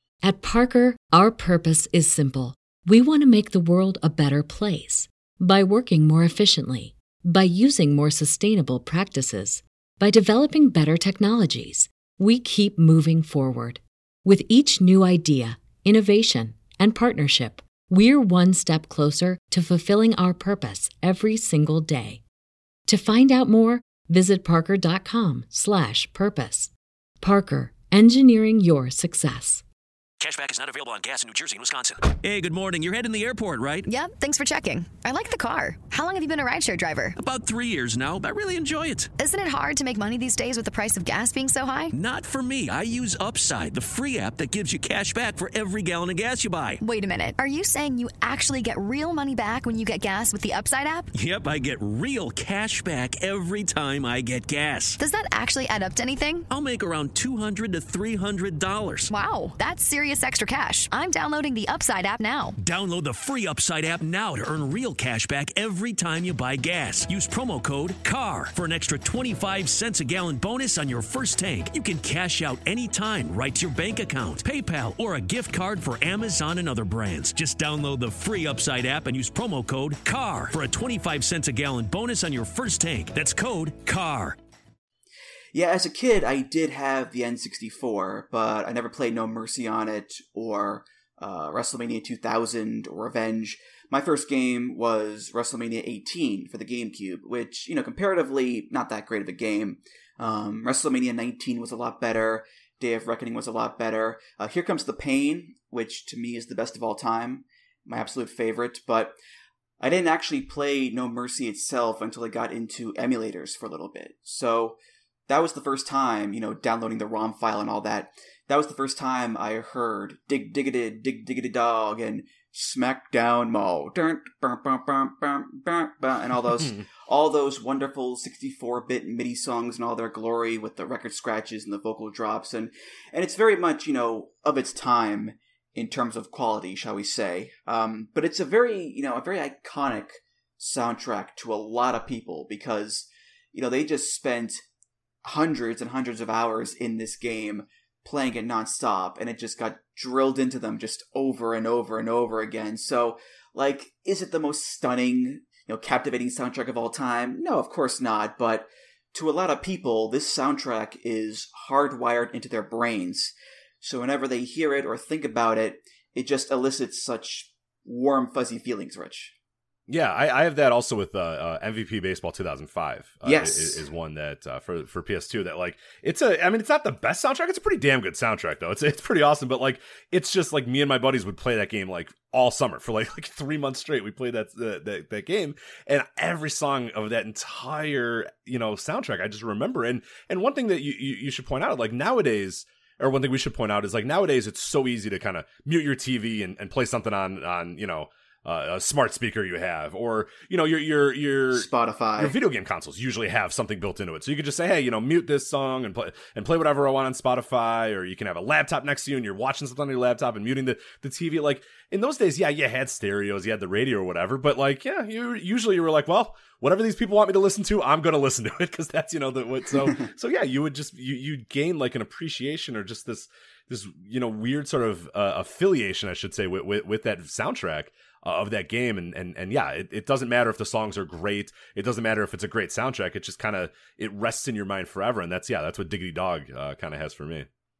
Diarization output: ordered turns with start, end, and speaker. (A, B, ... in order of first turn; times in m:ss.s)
0:00.2-0:22.2 A
0:22.9-0:29.6 A
0:30.2-0:33.9 B
0:33.8-0:37.2 C
0:37.2-0:39.1 B
0:39.2-0:41.9 C
0:41.9-0:46.8 B
0:46.8-0:51.1 C
0:51.1-0:55.0 B
0:55.0-0:56.5 C
0:56.5-0:59.1 B
0:59.1-1:02.6 C
1:02.6-1:24.4 B
1:25.5-1:49.2 D
1:49.8-2:24.6 D
2:25.2-2:49.3 D
2:49.9-3:57.5 E
2:53.2-2:53.8 D
3:21.5-3:22.3 D